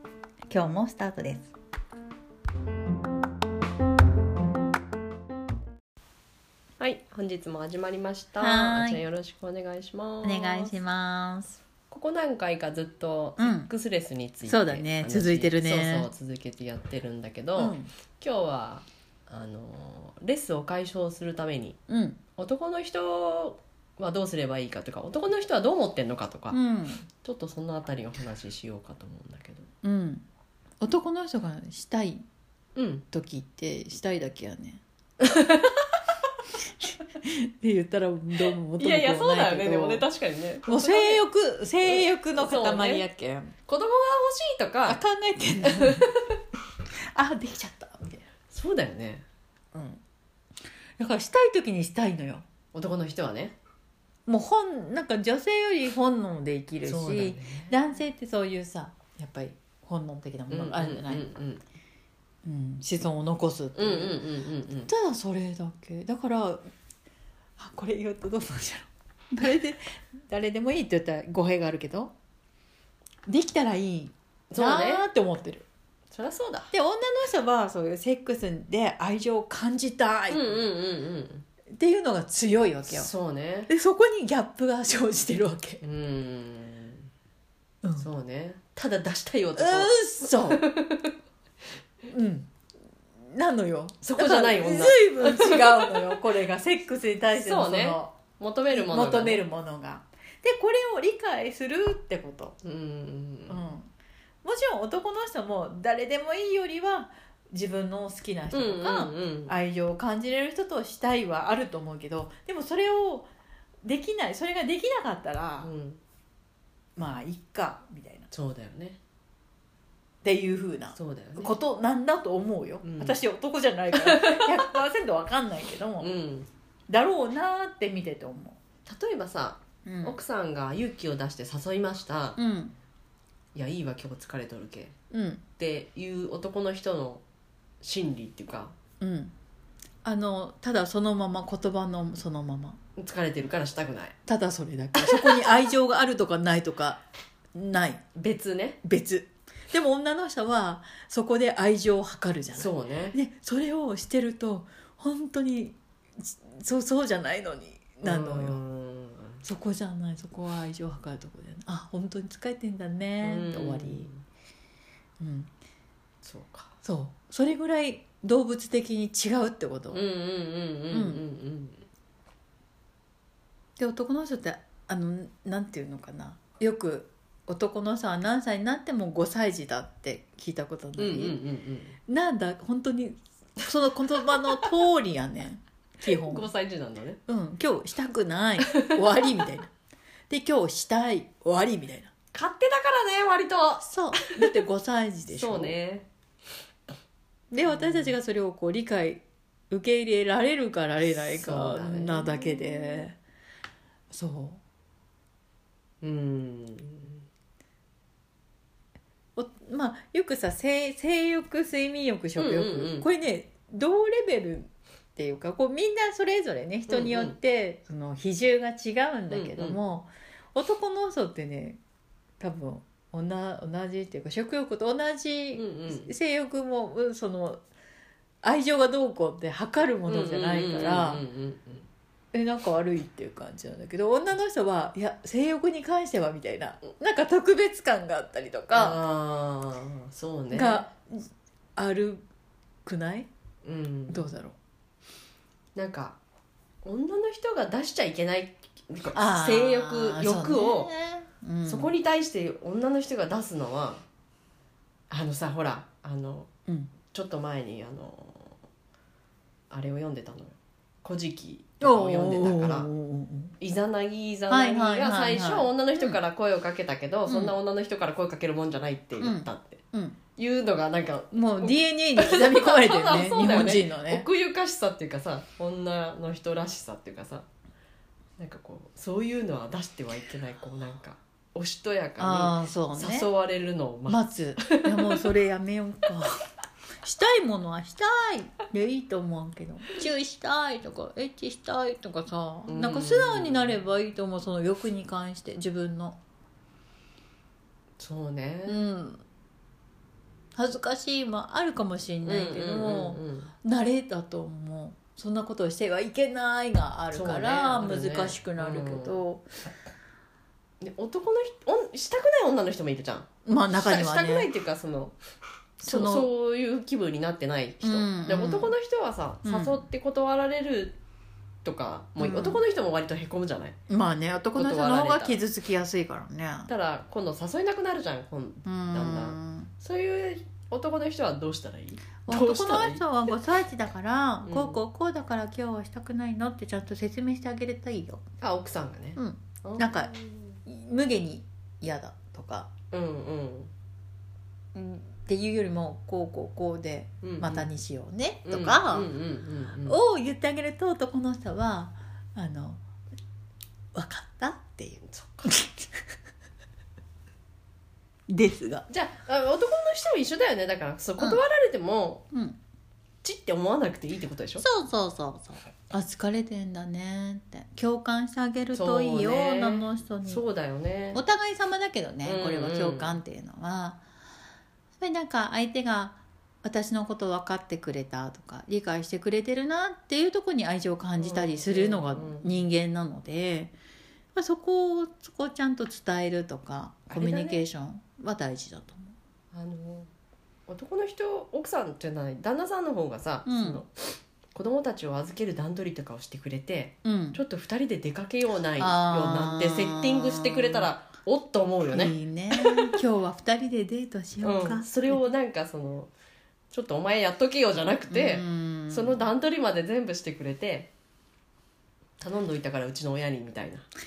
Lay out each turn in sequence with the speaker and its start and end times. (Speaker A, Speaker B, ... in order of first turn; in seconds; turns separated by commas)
Speaker A: 0.5-1.5, Speaker B: 6.8-10.8, Speaker A: 8.4-9.0, Speaker A: 10.2-11.6, Speaker B: 11.9-21.8, Speaker A: 13.4-13.7, Speaker A: 14.4-16.1, Speaker A: 17.6-17.9, Speaker A: 21.9-22.2, Speaker B: 22.4-26.6, Speaker A: 26.5-27.0, Speaker B: 27.2-29.7, Speaker A: 29.8-30.2, Speaker A: 30.8-32.2, Speaker B: 32.8-33.0, Speaker A: 33.1-34.8, Speaker B: 35.2-36.0, Speaker A: 37.1-40.0, Speaker B: 38.8-41.2, Speaker A: 40.7-43.5, Speaker B: 41.8-43.0, Speaker B: 43.7-45.0, Speaker A: 44.9-46.1, Speaker B: 45.6-46.2, Speaker A: 47.1-48.2, Speaker B: 48.5-49.2, Speaker A: 49.7-50.0, Speaker A: 51.0-52.4, Speaker B: 52.7-53.5, Speaker A: 54.2-61.3, Speaker B: 56.8-57.7, Speaker B: 60.5-61.6, Speaker A: 62.4-64.2, Speaker B: 63.8-64.9, Speaker A: 64.8-66.6, Speaker A: 67.6-72.1, Speaker A: 73.3-75.7, Speaker B: 74.5-75.1, Speaker B: 76.1-76.7, Speaker A: 76.7-80.6, Speaker B: 80.3-81.4, Speaker A: 81.8-83.1, Speaker B: 82.8-83.7, Speaker A: 83.7-85.8, Speaker B: 85.8-87.1, Speaker A: 87.8-88.1, Speaker B: 88.0-91.1, Speaker A: 89.6-90.6, Speaker A: 92.1-92.5, Speaker A: 93.3-98.1, Speaker B: 94.0-96.2, Speaker B: 97.3-99.4, Speaker A: 98.7-102.5, Speaker B: 102.6-103.6, Speaker A: 103.5-103.9, Speaker A: 104.4-113.3, Speaker B: 108.5-109.6, Speaker A: 113.8-115.7, Speaker B: 115.6-116.0, Speaker A: 117.0-118.3, Speaker B: 118.3-119.0, Speaker A: 120.2-126.1, Speaker B: 120.9-121.6, Speaker B: 122.8-123.2, Speaker B: 123.9-124.6, Speaker B: 126.0-126.5, Speaker A: 126.9-128.6, Speaker B: 128.8-132.4, Speaker A: 129.8-130.2, Speaker A: 132.4-132.7, Speaker B: 133.5-134.9, Speaker A: 135.1-135.4, Speaker B: 135.6-137.2, Speaker B: 137.8-138.7, Speaker A: 139.0-139.3, Speaker A: 140.0-142.8, Speaker B: 143.0-144.2, Speaker A: 144.2-147.0, Speaker B: 144.9-145.6, Speaker A: 147.5-148.0, Speaker B: 148.1-148.8, Speaker A: 148.8-158.6, Speaker B: 152.5-153.2, Speaker B: 158.0-159.4, Speaker A: 159.4-164.1, Speaker B: 163.2-164.2, Speaker A: 165.2-165.5, Speaker B: 166.2-166.8, Speaker A: 166.8-170.1, Speaker B: 169.9-171.8, Speaker A: 170.9-171.2, Speaker A: 173.8-181.4, Speaker B: 180.9-181.9, Speaker A: 182.1-186.5, Speaker B: 186.0-187.2, Speaker A: 187.3-189.7, Speaker A: 190.3-192.1, Speaker B: 192.3-194.5, Speaker A: 193.8-195.7, Speaker B: 195.3-196.1, Speaker A: 197.5-203.2, Speaker B: 197.7-198.1, Speaker B: 201.0-202.4, Speaker A: 204.1-204.6, Speaker B: 206.0-207.2, Speaker A: 209.3-221.8, Speaker B: 212.3-213.1, Speaker B: 216.9-217.4, Speaker B: 219.3-219.8, Speaker A: 222.4-227.6, Speaker B: 225.5-226.1, Speaker A: 228.4-231.2, Speaker B: 230.1-231.9, Speaker A: 232.3-239.0, Speaker B: 238.7-240.8, Speaker A: 240.5-242.2, Speaker A: 242.8-243.3, Speaker B: 243.6-244.3, Speaker A: 244.1-244.6, Speaker B: 245.7-246.2, Speaker B: 246.8-250.9, Speaker A: 249.1-251.9, Speaker B: 251.7-254.0, Speaker B: 255.1-256.5, Speaker A: 256.7-256.9, Speaker B: 257.1-258.6, Speaker B: 259.7-262.9, Speaker A: 261.8-263.5, Speaker B: 263.6-269.8, Speaker A: 264.5-266.2, Speaker A: 267.3-267.5, Speaker A: 269.2-270.2, Speaker B: 270.4-277.5, Speaker A: 271.3-274.3, Speaker B: 278.4-285.3, Speaker A: 282.2-283.3, Speaker A: 284.1-286.4, Speaker A: 287.0-296.2, Speaker B: 292.7-293.8, Speaker B: 298.0-298.8, Speaker A: 298.7-299.2, Speaker A: 300.6-309.4, Speaker B: 302.2-303.5, Speaker B: 307.1-309.2, Speaker B: 310.8-315.2, Speaker A: 313.4-314.5, Speaker B: 315.8-321.0, Speaker A: 315.8-316.3, Speaker A: 317.8-318.7, Speaker A: 319.4-319.8, Speaker B: 321.6-323.8, Speaker A: 322.2-322.6, Speaker A: 323.9-326.7, Speaker B: 324.6-325.4, Speaker B: 326.7-333.0, Speaker A: 328.6-329.7, Speaker A: 332.2-338.2, Speaker B: 334.4-334.8, Speaker B: 338.4-340.6, Speaker A: 339.1-342.7, Speaker B: 342.9-343.7, Speaker A: 344.7-349.1, Speaker B: 347.2-347.7, Speaker B: 348.4-350.0, Speaker A: 349.8-352.8, Speaker A: 353.9-355.9, Speaker B: 355.1-355.5, Speaker A: 358.3-358.9, Speaker B: 358.9-362.3, Speaker A: 362.3-362.6, Speaker B: 363.2-364.6, Speaker A: 364.6-370.4, Speaker B: 368.7-371.2, Speaker A: 371.1-374.0, Speaker B: 372.2-373.2, Speaker A: 375.0-383.8, Speaker B: 381.2-382.5, Speaker A: 384.3-389.1, Speaker B: 387.1-387.6, Speaker B: 389.5-390.1, Speaker B: 390.7-402.9, Speaker A: 393.4-393.8, Speaker A: 397.0-397.4, Speaker A: 398.8-400.9, Speaker A: 401.9-405.3, Speaker B: 404.4-406.1, Speaker B: 406.7-410.9, Speaker A: 408.1-409.2, Speaker B: 412.2-413.9